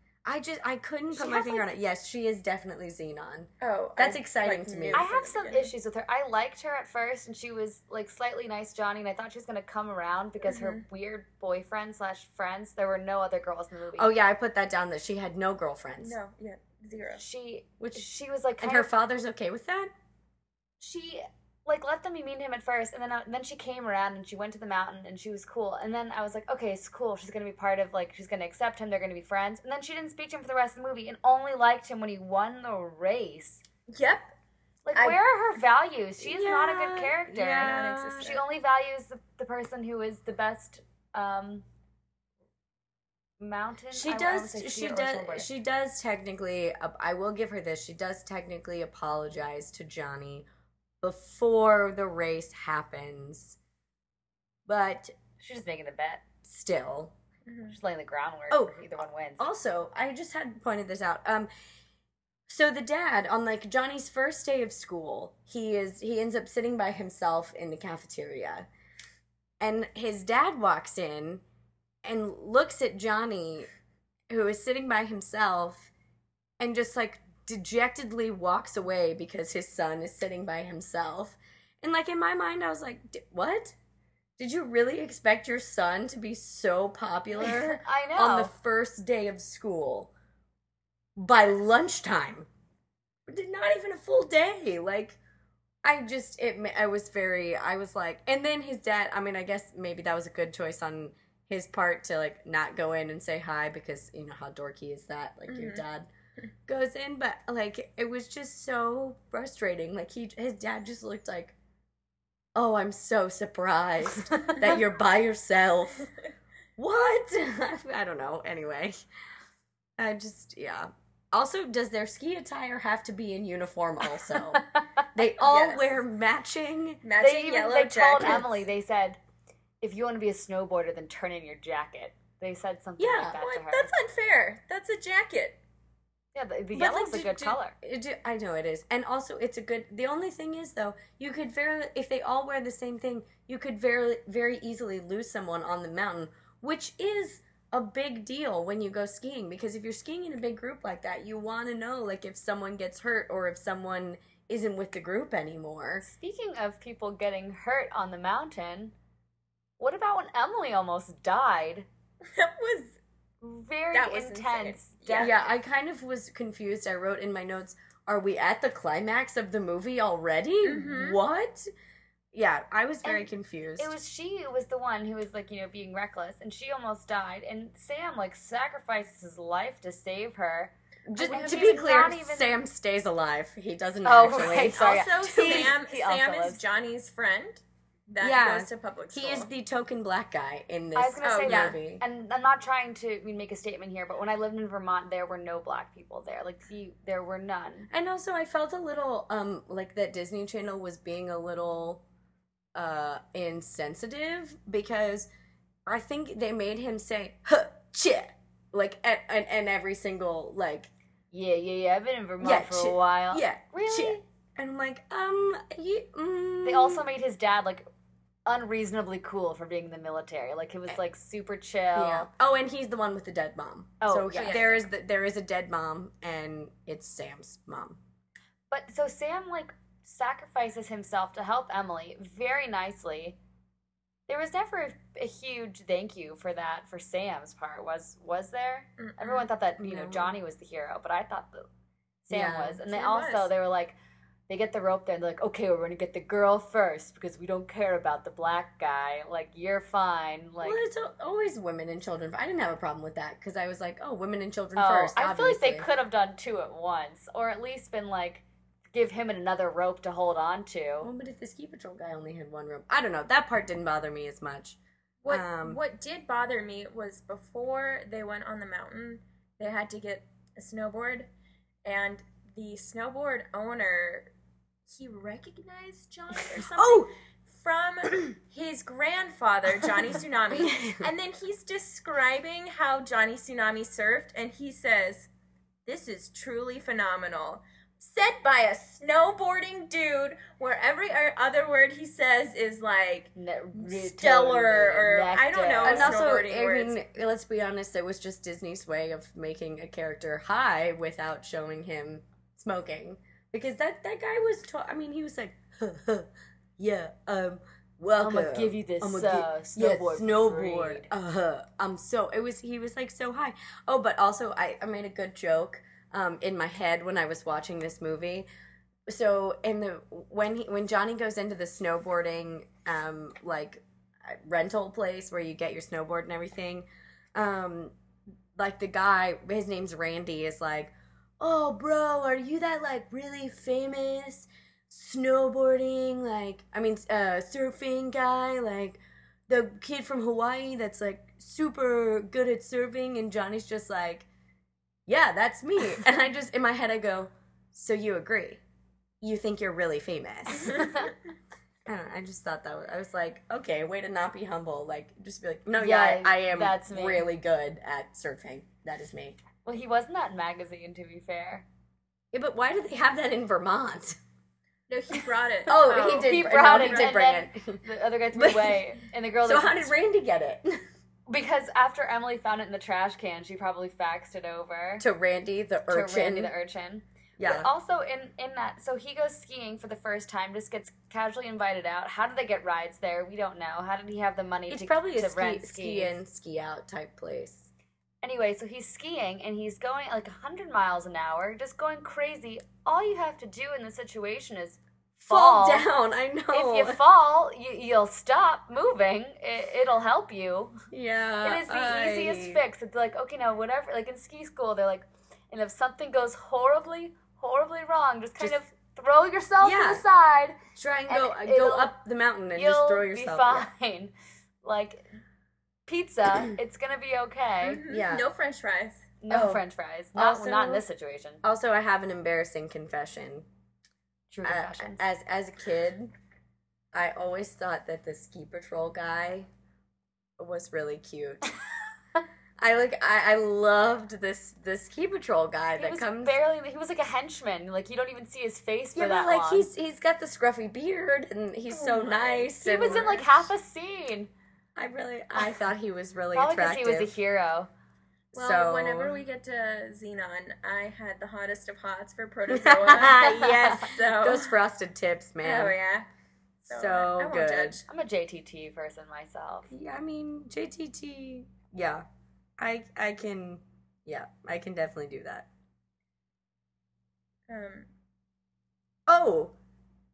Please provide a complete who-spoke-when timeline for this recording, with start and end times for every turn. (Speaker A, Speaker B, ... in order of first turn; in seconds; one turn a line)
Speaker A: 0.2-5.1
Speaker B: 1.1-1.7
Speaker C: 3.6-5.7
Speaker B: 4.9-14.1
Speaker C: 10.4-10.8
Speaker A: 14.0-16.2
Speaker C: 16.0-17.2
Speaker B: 17.2-18.9
Speaker A: 17.8-18.1
Speaker A: 18.6-19.9
Speaker B: 20.8-33.6
Speaker C: 33.9-34.3
Speaker B: 34.9-41.6
Speaker C: 34.9-35.2
Speaker A: 36.2-38.3
Speaker C: 37.6-38.4
Speaker B: 43.4-45.5
Speaker A: 43.9-50.5
Speaker A: 51.0-53.6
Speaker A: 54.7-55.1
Speaker B: 55.4-56.2
Speaker A: 56.4-57.1
Speaker C: 57.5-57.7
Speaker B: 57.7-59.5
Speaker A: 58.5-58.8
Speaker A: 59.4-61.5
Speaker A: 62.5-68.7
Speaker A: 69.6-71.4
Speaker A: 72.0-73.7
Speaker A: 74.3-75.9
Speaker A: 76.6-83.8
Speaker A: 84.4-90.1
Speaker B: 87.4-88.5
Speaker A: 91.2-92.5
Speaker A: 93.3-95.2
Speaker A: 95.8-106.1
Speaker C: 105.5-105.8
Speaker A: 106.7-111.5
Speaker A: 112.5-116.1
Speaker A: 116.8-119.0
Speaker A: 120.0-124.6
Speaker B: 124.5-124.8
Speaker A: 125.2-127.0
Speaker C: 125.4-126.0
Speaker C: 127.0-128.5
Speaker B: 127.2-129.2
Speaker A: 128.2-128.5
Speaker B: 129.8-133.9
Speaker A: 133.0-133.4
Speaker C: 133.4-135.6
Speaker B: 136.3-137.8
Speaker A: 136.7-156.1
Speaker B: 156.0-158.9
Speaker B: 159.8-161.9
Speaker C: 162.2-163.0
Speaker B: 163.4-165.3
Speaker C: 163.9-165.4
Speaker A: 165.2-171.7
Speaker C: 170.6-171.2
Speaker A: 172.3-173.9
Speaker B: 173.1-182.6
Speaker A: 181.1-185.7
Speaker C: 181.3-181.8
Speaker B: 184.1-186.6
Speaker C: 184.7-189.5
Speaker A: 188.2-192.0
Speaker B: 190.9-197.9
Speaker C: 191.2-191.8
Speaker A: 197.9-202.0
Speaker A: 202.8-205.3
Speaker A: 205.9-210.9
Speaker B: 211.3-214.2
Speaker A: 212.4-217.0
Speaker B: 216.6-217.9
Speaker B: 218.5-222.3
Speaker A: 221.9-228.0
Speaker B: 224.0-224.7
Speaker C: 224.3-224.8
Speaker B: 228.7-233.4
Speaker B: 234.3-241.7
Speaker C: 239.0-239.5
Speaker A: 239.8-240.3
Speaker B: 242.2-244.0
Speaker A: 242.3-242.8
Speaker C: 242.9-243.5
Speaker B: 244.5-250.8
Speaker A: 250.6-255.9
Speaker B: 254.8-261.1
Speaker A: 261.0-265.8
Speaker C: 265.2-271.3
Speaker C: 271.9-274.3
Speaker C: 274.9-285.3
Speaker A: 276.6-277.1
Speaker A: 280.5-281.1
Speaker C: 285.9-297.0
Speaker B: 293.4-296.3
Speaker A: 295.8-318.5
Speaker B: 308.2-311.1
Speaker A: 319.1-327.9
Speaker A: 328.6-344.3
Speaker A: 345.1-348.6
Speaker A: 349.2-351.0
Speaker B: 350.7-351.1
Speaker A: 351.9-359.4
Speaker B: 355.8-357.3
Speaker B: 359.6-361.6
Speaker A: 362.3-364.2
Speaker C: 364.9-367.1
Speaker A: 365.7-367.8
Speaker B: 366.1-369.9
Speaker A: 368.3-368.8
Speaker A: 369.4-370.8
Speaker B: 371.3-375.1
Speaker A: 375.0-376.5
Speaker B: 375.9-386.2
Speaker A: 377.4-377.7
Speaker A: 384.7-387.7
Speaker B: 388.2-395.9
Speaker A: 395.2-397.0
Speaker B: 396.5-400.8
Speaker A: 400.9-402.6
Speaker B: 401.4-411.9
Speaker A: 409.6-410.0
Speaker A: 410.8-413.7
Speaker B: 412.5-415.1
Speaker B: 415.9-417.8
Speaker C: 417.6-419.1
Speaker A: 417.9-418.3
Speaker B: 419.2-421.4
Speaker A: 419.3-419.6
Speaker A: 420.1-420.9
Speaker A: 421.4-423.5
Speaker B: 424.3-425.1
Speaker A: 424.4-426.1
Speaker A: 426.9-429.5
Speaker A: 430.4-431.4
Speaker A: 432.6-436.4
Speaker B: 435.8-439.7
Speaker A: 438.9-443.5
Speaker C: 441.7-443.2
Speaker B: 442.6-444.3
Speaker A: 444.8-447.2
Speaker B: 446.3-447.7
Speaker A: 448.3-449.2
Speaker C: 448.3-454.5
Speaker A: 452.5-455.8
Speaker C: 455.4-456.1
Speaker C: 456.6-457.9
Speaker A: 456.7-457.8
Speaker B: 457.9-459.7
Speaker A: 459.7-462.1
Speaker A: 462.6-465.5
Speaker C: 467.5-467.9
Speaker A: 469.1-469.5